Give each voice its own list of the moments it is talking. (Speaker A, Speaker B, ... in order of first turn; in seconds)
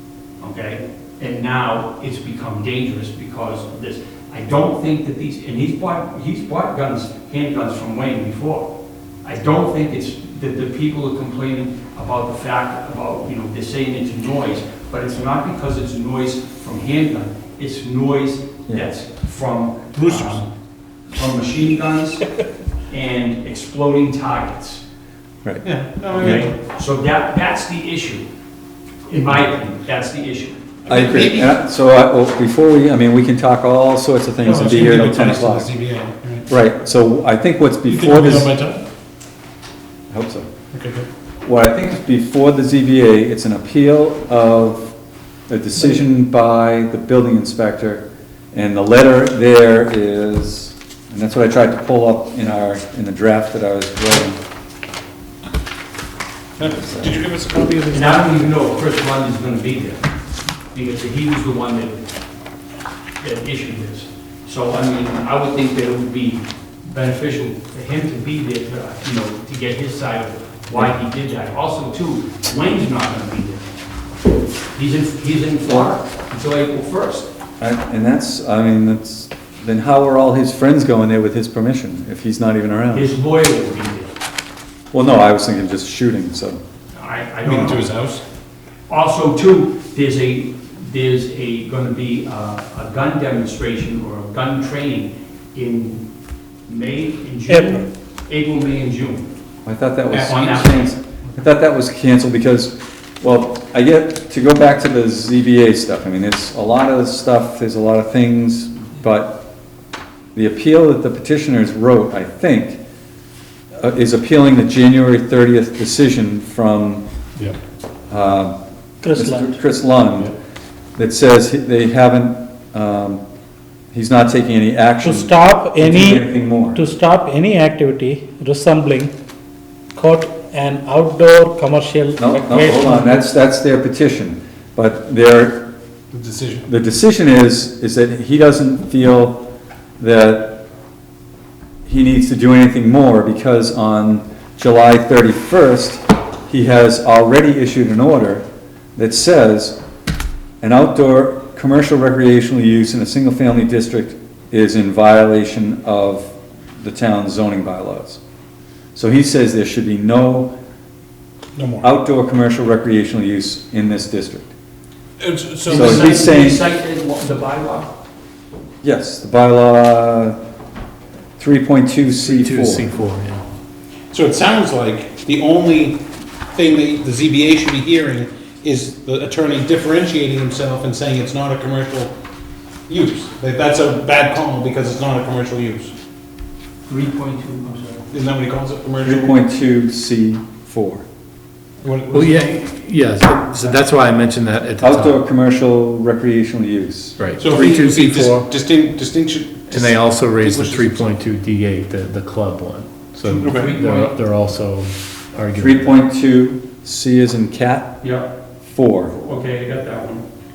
Speaker A: 0.4-20.5, 21.1-22.2, 22.9-24.8, 26.1-28.2, 29.1-30.6, 57.9-60.0, 60.7-62.0, 63.2-73.6, 74.7-77.3, 82.9-84.1, 86.9-87.8, 88.9-96.0, 96.7-99.2, 100.2-100.9, 165.7-167.9, 186.9-188.0, 203.3-204.2, 208.0-208.3, 209.1-210.2
Speaker B: 19.9-20.4, 25.6-26.5, 30.9-31.5, 34.4-36.5, 37.9-38.8, 40.7-41.0, 56.6-58.4, 87.4-88.2, 100.1-100.5, 136.1-136.7, 161.6-161.9, 165.2-166.2, 174.1-176.0, 176.5-182.1, 182.9-185.9, 188.1-189.3, 191.8-192.6, 197.4-201.2, 203.3-203.7
Speaker C: 30.9-35.7, 36.5-38.5, 40.1-40.5, 41.4-44.9, 45.5-54.4, 56.6-57.2, 77.6-83.1, 84.9-86.6, 99.7-109.4, 110.3-112.8, 113.7-117.0, 118.1-118.5, 119.1-120.3, 121.0-123.2, 123.9-126.8, 132.2-135.7, 136.7-139.4, 140.0-140.6, 141.8-148.4, 148.9-149.8, 150.6-158.2, 158.9-160.5, 161.8-164.5, 165.7-166.6, 168.8-170.4, 171.4-172.8, 189.0-191.0, 194.8-197.6, 205.6-208.0, 208.7-209.1
Speaker D: 97.5-97.8, 119.0-119.5, 125.0-129.1, 129.9-133.3
Speaker E: 172.2-173.4, 192.1-195.2, 197.2-198.5, 199.7-205.9